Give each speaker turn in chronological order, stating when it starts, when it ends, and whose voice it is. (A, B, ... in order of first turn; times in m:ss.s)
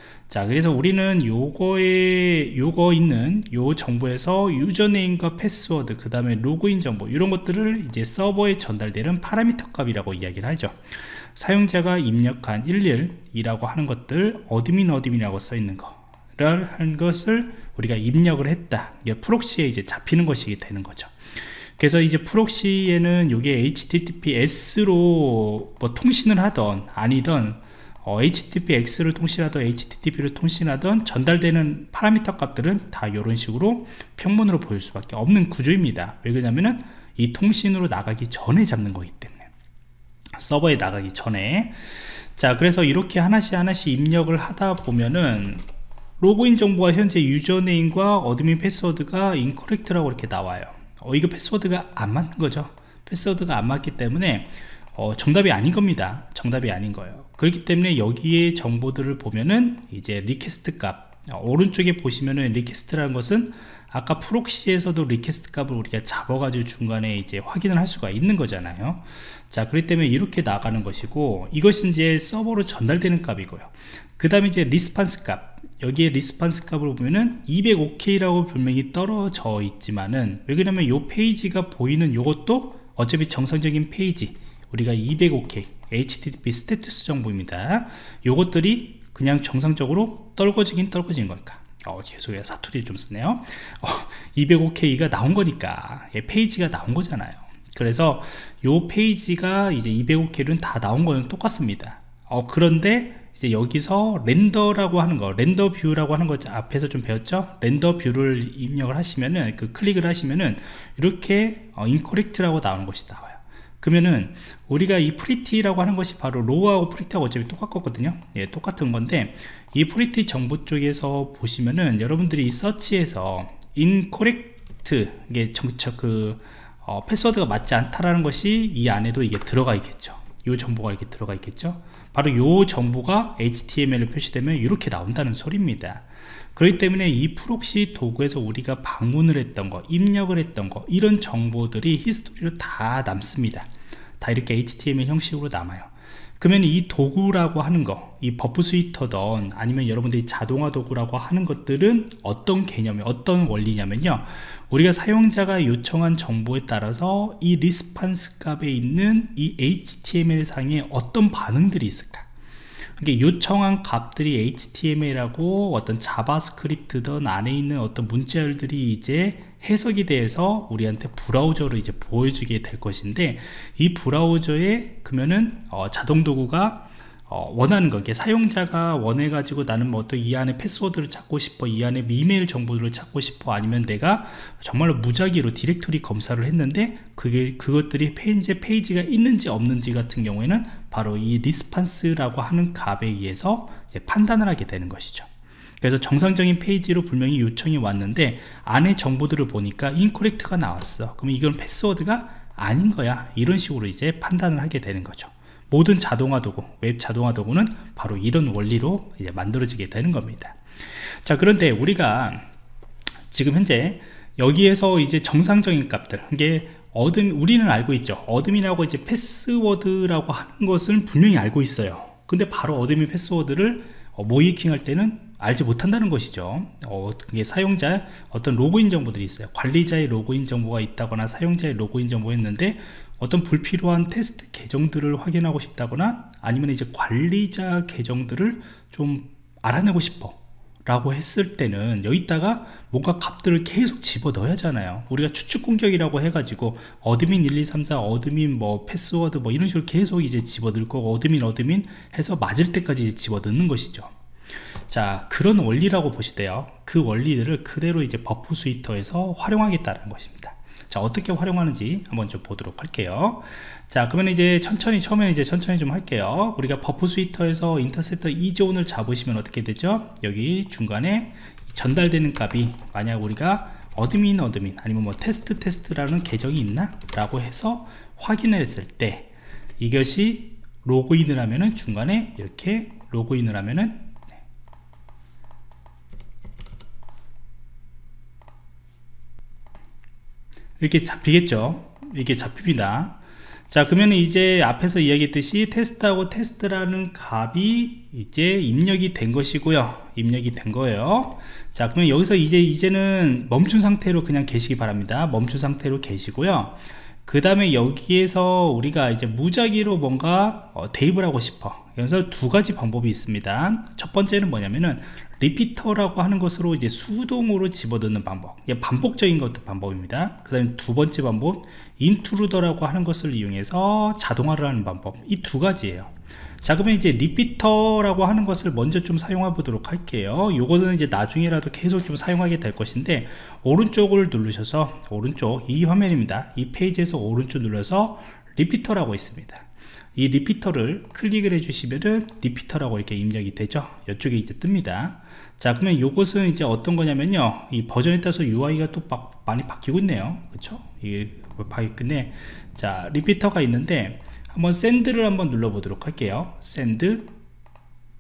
0:00.3-0:39.5 A
0:40.4-0:45.6 A
0:46.2-2:42.3 A
2:43.0-3:15.3 A
3:15.8-3:32.4 A
3:33.3-4:14.1 A
4:14.9-4:44.2 A
4:50.8-4:53.2 A
4:53.7-5:57.3 A